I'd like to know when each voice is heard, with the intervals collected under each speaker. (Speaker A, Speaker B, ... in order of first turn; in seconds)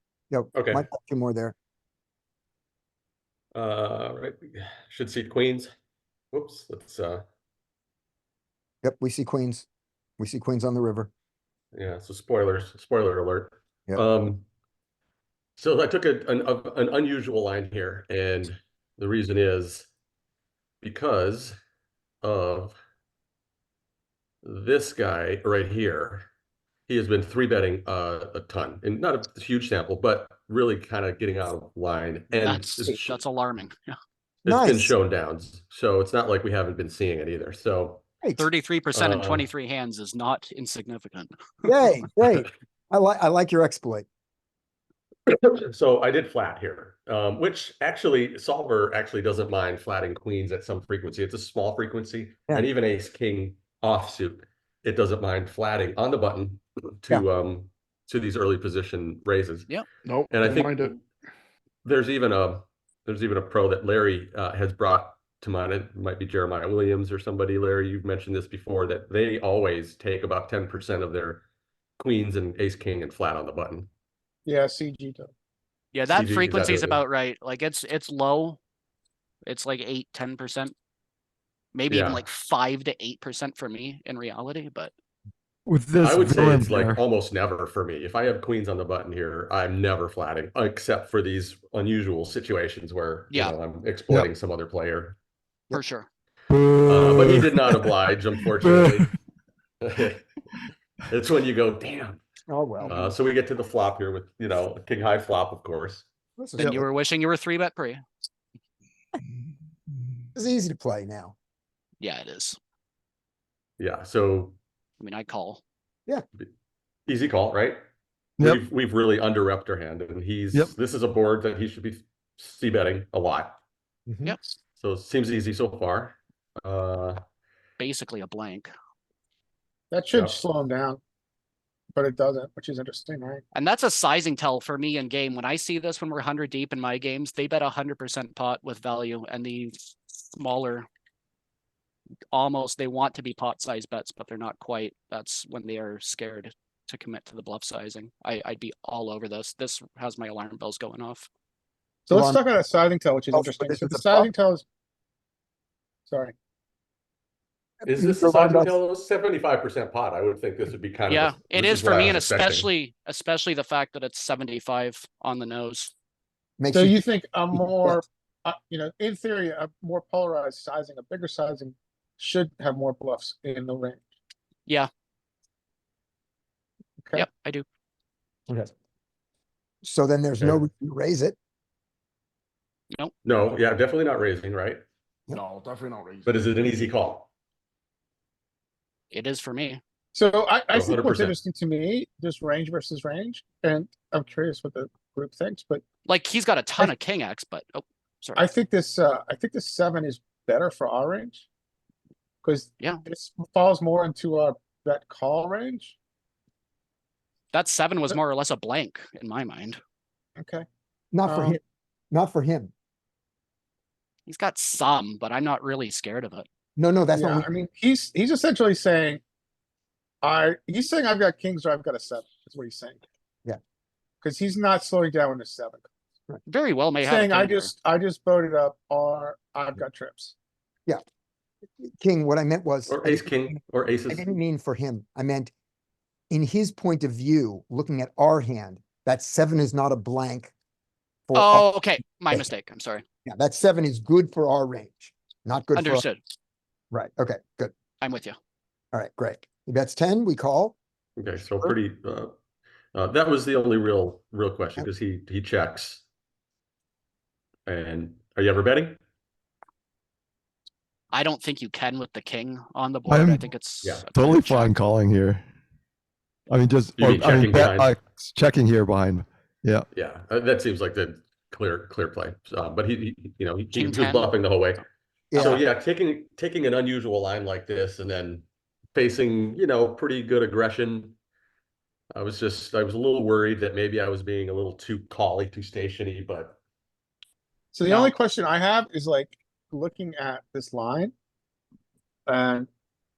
Speaker A: 0.3-1.6, 8.8-9.7, 10.2-11.1, 34.5-34.9, 38.2-38.5, 41.6-44.1, 102.5-103.1, 106.4-106.9, 110.3-111.3, 124.1-124.4, 152.1-152.4, 153.3-154.3, 157.8-158.8, 166.6-167.0, 167.6-168.0, 179.8-181.4, 211.1-212.7, 216.8-217.5, 231.8-235.5, 236.3-240.5, 241.3-241.7, 243.2-246.0, 246.9-247.7, 248.9-250.8, 275.3-275.7
Speaker B: 0.5-0.9, 3.5-5.7, 6.3-7.2, 11.7-14.5, 15.6-19.9, 20.8-21.6, 22.2-22.8, 24.4-26.3, 26.9-33.2, 34.5-38.0, 38.9-39.5, 45.3-59.7, 60.3-61.0, 61.9-71.4, 72.0-73.9, 76.1-77.0, 81.9-82.3, 86.0-95.2, 96.9-99.1, 99.8-100.2, 101.1-102.2, 102.8-106.1, 113.8-114.6, 117.1-117.8, 118.4-123.6, 124.8-127.2, 130.1-130.4, 157.8-162.7, 183.2-184.8, 186.3-187.3, 190.7-191.3, 232.9-234.3, 251.2-252.3, 252.9-256.0, 257.7-259.0, 263.8-264.1, 267.0-267.9, 269.9-274.8, 275.3-281.2, 282.1-286.6
Speaker C: 32.4-34.0, 38.4-41.3, 75.9-78.6, 79.5-80.7, 81.7-84.9, 95.7-96.1, 106.6-108.0, 112.0-112.6, 115.0-115.6, 127.8-128.7, 133.5-140.9, 142.3-151.3, 161.1-165.9, 177.1-177.7, 189.1-189.8, 196.1-198.4, 207.5-209.8, 214.3-216.5, 226.5-227.7, 241.3-243.0, 245.8-246.2, 248.0-248.4, 261.1-264.8, 273.7-274.3, 287.9-288.1
Speaker D: 60.0-61.0, 185.3-186.6
Speaker E: 74.5-75.3, 129.9-131.0, 131.9-133.4, 152.1-154.6, 156.1-156.3, 166.7-174.0, 190.2-195.8, 198.4-201.5, 202.4-206.0, 210.4-210.7, 211.3-211.6, 217.1-219.2, 220.2-223.0, 224.2-225.9, 227.0-230.3, 287.7-291.1, 292.3-292.7
Speaker F: 85.7-87.0, 96.5-97.9, 98.5-99.1, 263.1-263.5, 264.1-265.4, 266.5-269.9